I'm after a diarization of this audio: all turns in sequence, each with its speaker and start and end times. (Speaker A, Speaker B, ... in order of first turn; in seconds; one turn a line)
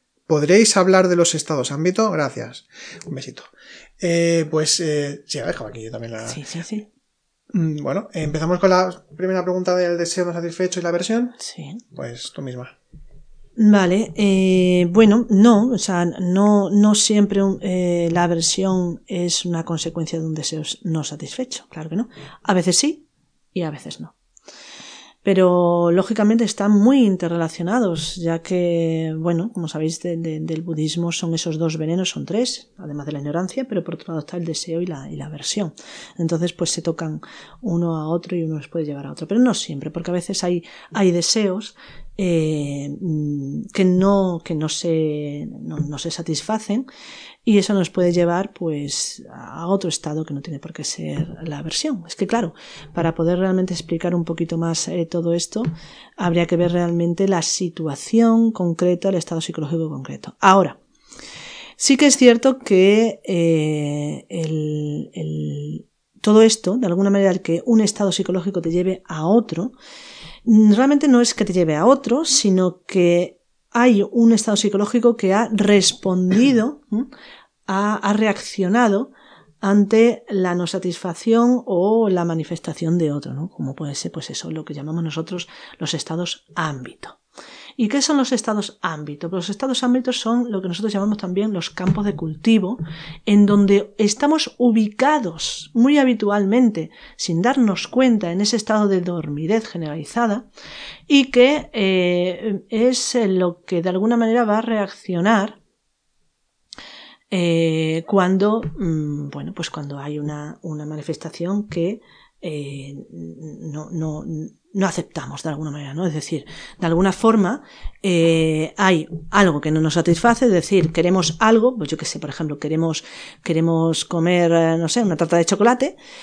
Speaker A: 0.3-6.4
Speaker B: 6.3-6.8
Speaker A: 7.5-11.4
Speaker B: 11.4-11.8
Speaker A: 11.9-12.7
Speaker B: 13.6-24.1
Speaker B: 25.2-46.9
Speaker B: 47.4-60.8
Speaker B: 61.8-69.7
Speaker B: 70.4-77.1
Speaker B: 77.7-87.2
Speaker B: 87.8-100.5
Speaker B: 101.1-105.6
Speaker B: 107.3-126.0